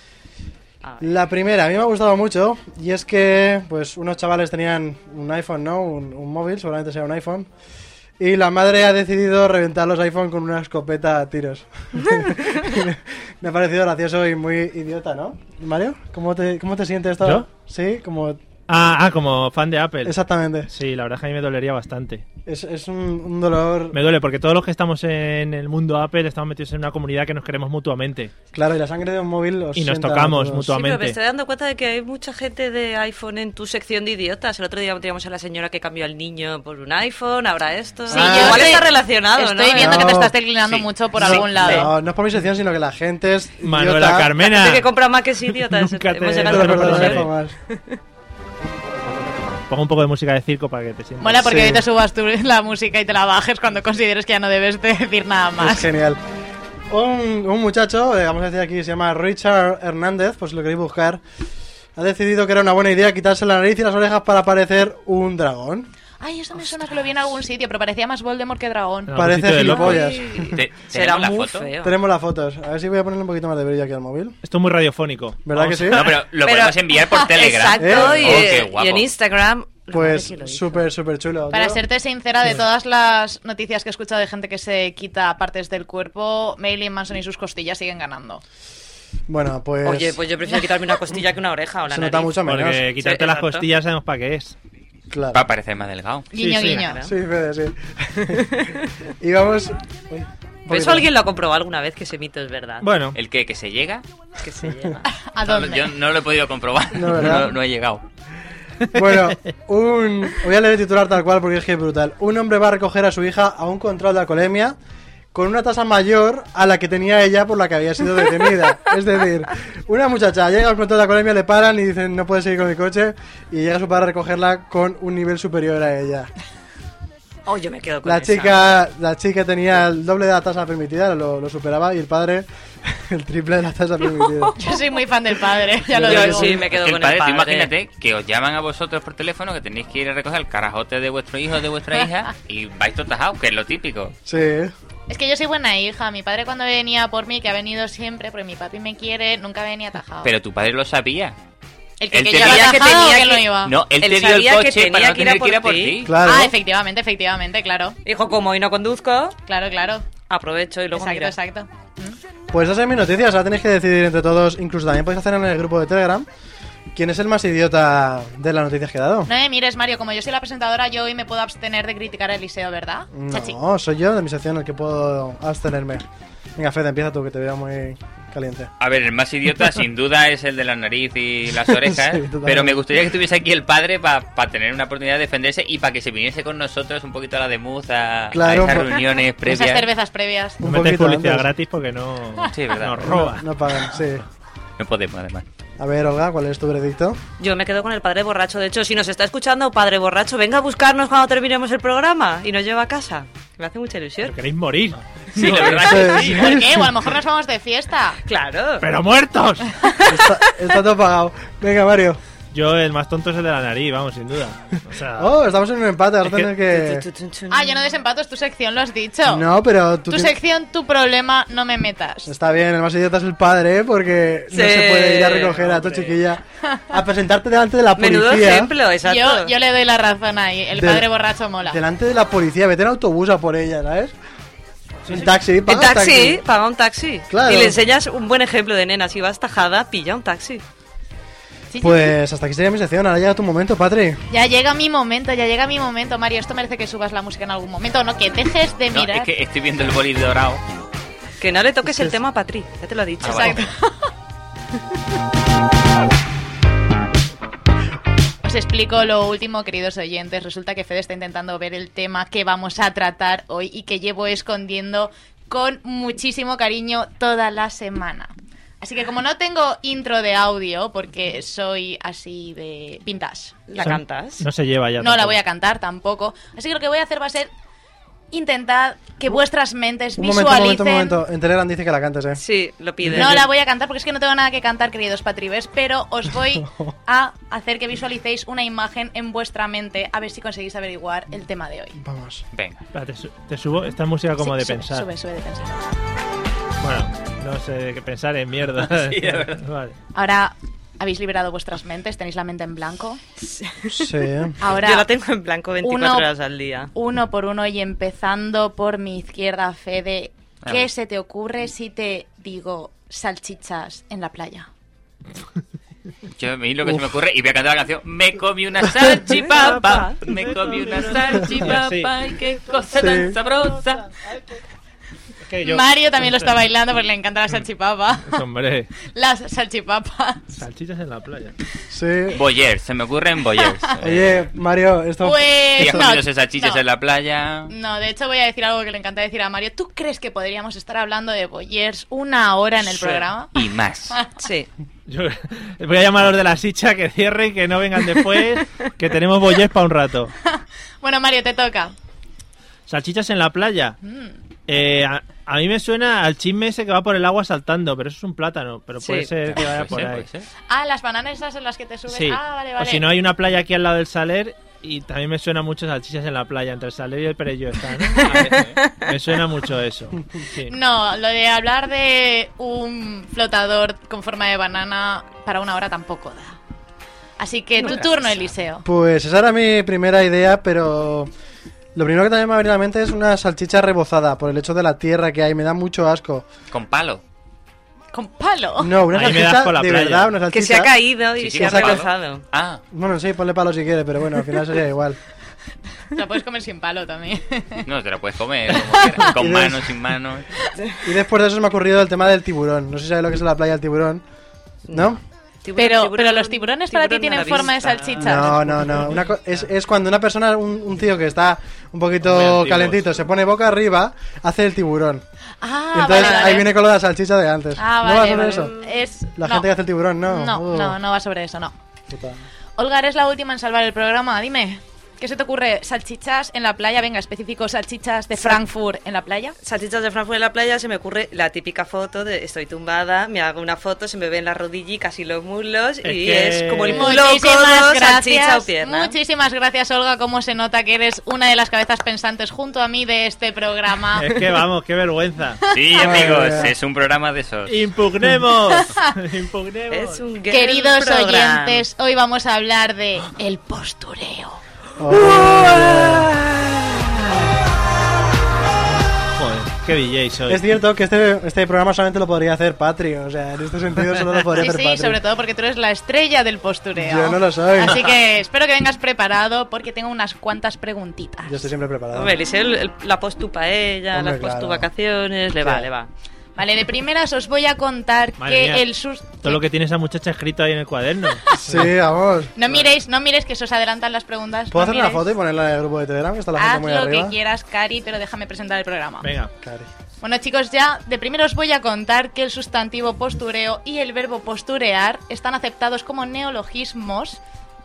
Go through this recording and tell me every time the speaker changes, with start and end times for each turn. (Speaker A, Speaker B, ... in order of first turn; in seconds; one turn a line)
Speaker A: 0.8-1.2
Speaker B: 1.0-7.5
Speaker B: 8.2-18.4
Speaker C: 18.7-20.1
Speaker B: 20.0-20.7
Speaker C: 20.7-22.2
Speaker B: 22.4-24.0
Speaker C: 23.9-28.3
Speaker B: 28.5-30.7
Speaker C: 29.8-31.2
Speaker A: 30.7-40.1
Speaker B: 38.1-38.8
Speaker D: 38.1-41.9
Speaker B: 39.7-40.3
Speaker B: 41.1-44.3
Speaker A: 41.3-41.9
Speaker C: 43.6-44.9
Speaker A: 44.4-48.0
Speaker C: 45.5-47.3
Speaker B: 46.4-47.5
Speaker C: 49.7-51.5
Speaker D: 51.2-55.9
Speaker B: 51.4-51.8
Speaker B: 55.6-56.2
Speaker B: 56.9-61.2
Speaker B: 62.0-65.9
Speaker D: 66.2-69.1
Speaker C: 69.1-70.0
Speaker B: 69.2-70.6
Speaker A: 69.6-71.9
Speaker E: 69.8-71.7
Speaker B: 71.8-74.4
Speaker C: 74.4-76.1
Speaker B: 75.5-76.1
Speaker E: 75.9-79.1
Speaker A: 76.4-80.8
Speaker B: 77.8-78.5
Speaker B: 79.9-81.8
Speaker D: 81.5-88.4
Speaker B: 89.3-90.2
Speaker A: 89.8-92.3
Speaker B: 91.9-92.9
Speaker C: 92.4-94.5
Speaker A: 93.0-93.7
Speaker B: 95.1-95.4
Speaker E: 95.3-96.3
Speaker D: 96.3-97.0
Speaker C: 96.3-96.9
Speaker A: 96.6-97.1
Speaker B: 97.0-98.7
Speaker A: 98.3-98.8
Speaker B: 99.2-101.1
Speaker A: 100.7-102.8
Speaker C: 102.8-103.2
Speaker E: 103.1-104.0
Speaker A: 104.4-105.0
Speaker D: 105.2-105.9
Speaker E: 105.4-108.0
Speaker B: 106.9-107.5
Speaker B: 108.9-114.8
Speaker B: 115.3-126.3
Speaker A: 127.4-128.6
Speaker B: 128.0-134.6
Speaker D: 134.5-136.5
Speaker A: 135.9-137.7
Speaker E: 136.0-144.1
Speaker B: 144.2-144.7
Speaker D: 145.1-150.3
Speaker E: 150.2-151.4
Speaker D: 152.0-153.7
Speaker E: 152.1-153.0
Speaker A: 152.2-153.5
Speaker E: 153.6-156.2
Speaker A: 154.0-156.0
Speaker B: 156.0-156.5
Speaker D: 156.2-157.9
Speaker A: 158.1-159.3
Speaker D: 159.5-160.0
Speaker A: 160.3-161.3
Speaker D: 160.9-162.2
Speaker B: 162.5-166.3
Speaker B: 166.9-169.3
Speaker D: 169.3-173.6
Speaker B: 173.1-176.0
Speaker B: 176.6-178.7
Speaker E: 178.8-189.9
Speaker B: 181.8-182.8
Speaker B: 188.3-189.0
Speaker D: 189.4-190.6
Speaker B: 190.6-191.5
Speaker C: 190.6-193.4
Speaker E: 192.5-193.2
Speaker B: 193.0-194.2
Speaker E: 194.8-195.4
Speaker B: 195.8-197.2
Speaker A: 197.4-204.3
Speaker C: 204.2-206.3
Speaker E: 205.3-206.5
Speaker A: 205.4-205.9
Speaker B: 205.8-207.0
Speaker D: 206.2-208.2
Speaker A: 208.3-208.8
Speaker C: 208.8-209.7
Speaker B: 210.1-212.2
Speaker C: 212.5-215.3
Speaker B: 215.2-217.0
Speaker A: 216.5-217.8
Speaker D: 217.5-219.5
Speaker B: 219.3-220.3
Speaker D: 220.1-222.3
Speaker B: 222.3-228.7
Speaker A: 224.5-225.6
Speaker C: 225.5-226.2
Speaker A: 228.0-229.5
Speaker D: 229.0-231.8
Speaker B: 230.8-231.1
Speaker B: 231.6-234.1
Speaker C: 235.0-235.3
Speaker B: 235.1-236.4
Speaker A: 235.7-240.6
Speaker B: 237.3-237.8
Speaker D: 241.7-242.1
Speaker B: 241.8-244.2
Speaker D: 244.3-249.3
Speaker E: 248.9-250.6
Speaker A: 251.4-253.6
Speaker B: 251.8-252.2
Speaker E: 253.2-253.6
Speaker D: 253.2-253.9
Speaker D: 258.4-273.6
Speaker A: 273.7-274.4
Speaker C: 273.8-275.4
Speaker D: 275.0-277.5
Speaker D: 278.3-281.2
Speaker B: 280.2-282.4
Speaker A: 282.4-283.4
Speaker B: 283.0-283.5
Speaker D: 283.1-291.9
Speaker B: 286.5-286.9
Speaker B: 292.0-292.4
Speaker E: 292.5-292.8
Speaker C: 292.9-295.1
Speaker D: 294.4-295.7
Speaker C: 296.8-299.9
Speaker E: 298.8-299.6
Speaker D: 300.1-303.2
Speaker A: 303.4-304.1
Speaker B: 303.9-304.6
Speaker D: 304.6-305.1
Speaker A: 304.7-306.9
Speaker D: 305.8-306.3
Speaker D: 306.9-314.7
Speaker E: 316.3-324.1
Speaker B: 318.9-319.2
Speaker A: 319.3-320.2
Speaker C: 319.5-323.1
Speaker B: 322.9-323.3
Speaker C: 324.2-324.6
Speaker C: 325.5-326.5
Speaker D: 325.6-328.4
Speaker C: 328.3-328.9
Speaker D: 329.1-330.5
Speaker C: 330.5-331.5
Speaker B: 331.9-332.4
Speaker E: 332.3-334.5
Speaker B: 334.0-336.0
Speaker D: 335.2-336.8
Speaker E: 335.8-337.7
Speaker D: 337.7-343.5
Speaker A: 342.8-343.3
Speaker E: 343.5-344.2
Speaker D: 344.1-344.4
Speaker A: 344.4-344.7
Speaker C: 345.1-350.3
Speaker D: 350.4-351.9
Speaker C: 352.9-354.0
Speaker D: 354.0-354.4
Speaker C: 354.7-360.3
Speaker A: 359.0-359.3
Speaker E: 359.4-360.4
Speaker D: 360.7-363.1
Speaker C: 362.1-370.8
Speaker A: 368.2-369.0
Speaker E: 368.3-368.8
Speaker D: 370.7-376.6
Speaker D: 377.4-378.8
Speaker A: 377.8-378.1
Speaker B: 378.8-381.3
Speaker B: 381.9-386.5
Speaker E: 386.7-387.2
Speaker D: 388.1-389.0
Speaker B: 388.8-390.9
Speaker C: 389.1-390.4
Speaker A: 390.5-392.4
Speaker E: 391.4-392.8
Speaker B: 391.6-392.0
Speaker B: 392.9-395.2
Speaker D: 396.1-397.8
Speaker E: 397.9-400.5
Speaker B: 399.2-399.9
Speaker B: 401.0-404.2
Speaker B: 404.9-405.2
Speaker A: 404.9-408.7
Speaker D: 405.8-408.9
Speaker B: 408.2-415.2
Speaker C: 412.2-413.0
Speaker D: 415.6-416.7
Speaker B: 415.9-418.7
Speaker A: 416.1-416.6
Speaker D: 417.8-419.7
Speaker B: 419.4-421.0
Speaker D: 420.2-421.7
Speaker B: 422.1-422.4
Speaker D: 422.8-429.6
Speaker A: 429.6-439.1
Speaker C: 436.0-437.1
Speaker D: 436.9-444.3
Speaker C: 444.2-445.6
Speaker E: 445.7-447.9
Speaker B: 446.0-446.7
Speaker C: 447.7-450.2
Speaker D: 448.7-449.1
Speaker A: 449.9-451.8
Speaker D: 450.5-454.6
Speaker B: 455.0-456.3
Speaker C: 455.2-456.4
Speaker C: 459.4-460.6
Speaker B: 460.5-465.2
Speaker D: 464.6-471.7
Speaker B: 466.9-468.0
Speaker B: 471.4-472.4
Speaker A: 472.1-476.1
Speaker B: 474.1-474.9
Speaker B: 475.6-475.9
Speaker D: 476.6-479.6
Speaker C: 478.4-478.8
Speaker C: 479.4-481.9
Speaker B: 481.6-482.6
Speaker D: 482.6-485.2
Speaker B: 484.7-487.3
Speaker D: 486.6-489.3
Speaker C: 489.2-489.5
Speaker B: 489.6-489.9
Speaker D: 490.2-497.4